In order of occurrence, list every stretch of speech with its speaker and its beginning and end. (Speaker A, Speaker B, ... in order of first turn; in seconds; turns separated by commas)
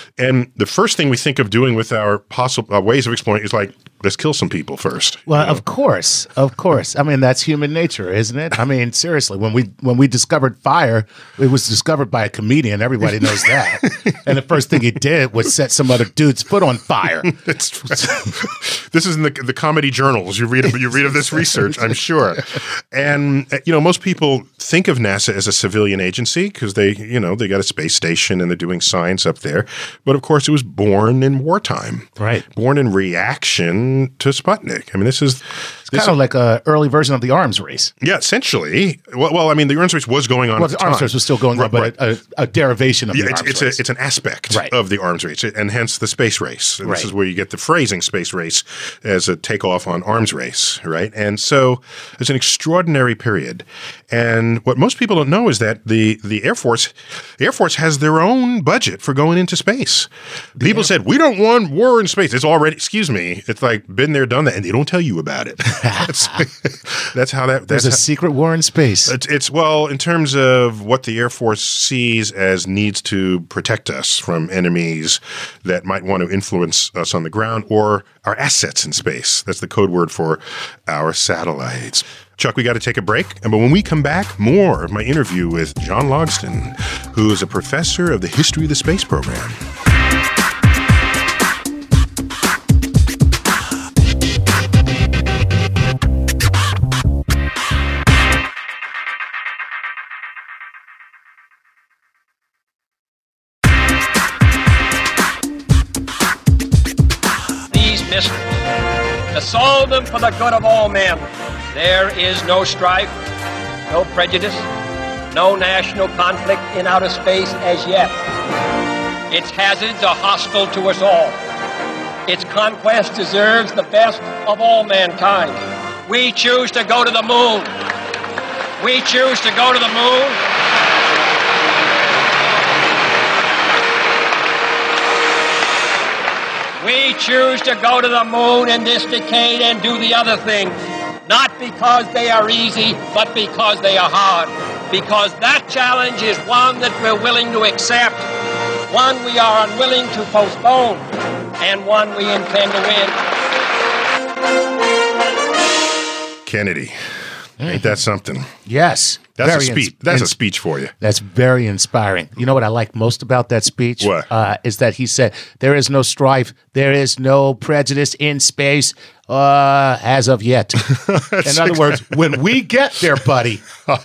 Speaker A: 0.2-5.6, Speaker B: 5.3-18.3, Speaker A: 17.2-36.1, Speaker B: 32.2-32.4, Speaker B: 35.9-37.9, Speaker A: 38.0-41.9, Speaker B: 40.6-43.8, Speaker A: 43.1-68.0, Speaker B: 60.6-60.9, Speaker B: 65.8-66.4, Speaker B: 67.7-69.1, Speaker A: 69.1-89.6, Speaker C: 107.7-108.4, Speaker C: 109.3-113.1, Speaker C: 113.9-114.7, Speaker C: 115.3-118.1, Speaker C: 119.3-121.4, Speaker C: 122.3-127.7, Speaker C: 128.8-130.4, Speaker C: 136.8-148.2, Speaker C: 148.9-151.1, Speaker C: 151.6-153.1, Speaker A: 156.4-156.9, Speaker B: 157.6-157.9, Speaker A: 157.6-158.5, Speaker B: 158.7-160.3, Speaker A: 159.4-160.9, Speaker B: 161.0-173.7, Speaker A: 164.0-164.3, Speaker A: 170.8-172.3